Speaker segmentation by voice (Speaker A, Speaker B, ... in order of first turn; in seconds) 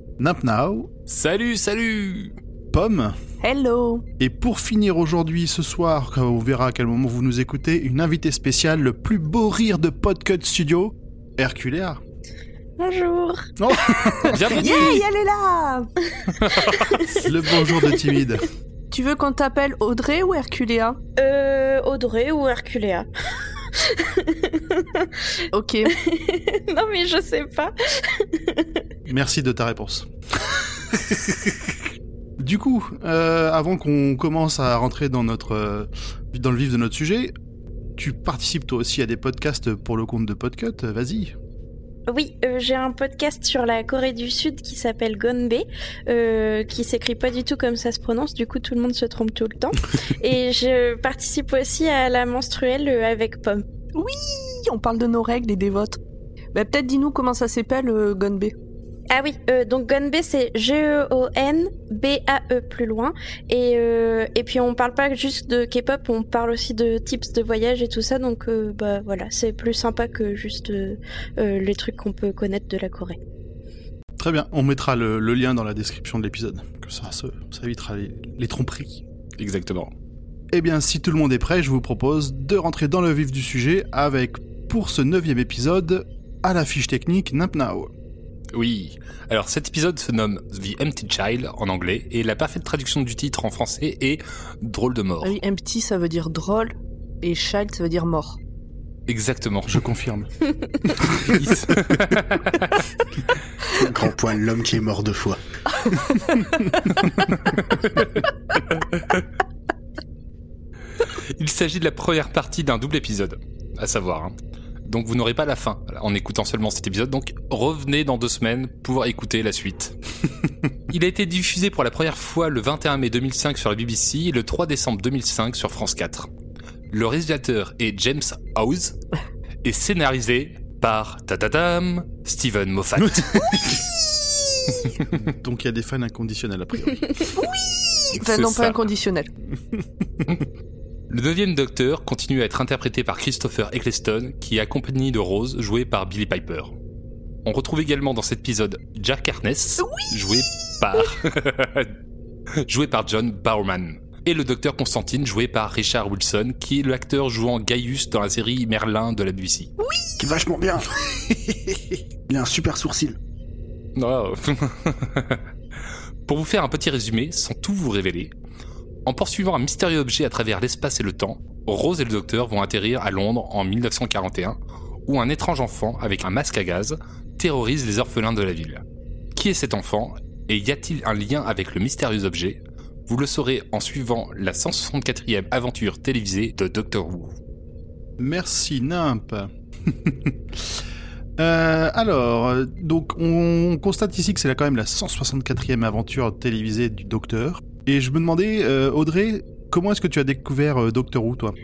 Speaker A: 0.2-0.9, 2.7-3.2, 4.2-12.0, 13.6-14.7, 17.1-18.5, 29.1-31.5, 32.4-37.3, 38.0-41.4, 74.2-79.0, 80.5-87.9, 99.7-100.3, 100.8-102.3, 135.1-137.3, 188.2-190.8, 191.4-201.6
Speaker B: 1.1-2.4, 14.2-15.0, 16.4-16.9, 79.4-79.9, 88.5-95.4, 99.1-99.8, 101.4-102.7, 108.7-109.2, 111.4-120.0, 120.9-126.3, 126.9-129.0, 129.6-133.8, 138.2-138.9, 141.1-146.7, 147.4-151.9, 152.6-159.7, 164.0-165.4, 166.3-168.3, 169.1-178.8, 179.3-187.4
Speaker C: 3.4-4.0, 14.2-15.9, 18.9-21.0, 25.5-26.0, 54.0-56.0, 56.5-58.5, 95.2-98.4, 137.3-139.3, 149.8-150.4, 159.8-160.2
Speaker D: 12.8-13.5, 16.1-17.9, 21.2-28.8, 42.1-53.6, 59.1-73.2
Speaker E: 103.8-105.4, 160.2-161.8, 162.3-163.2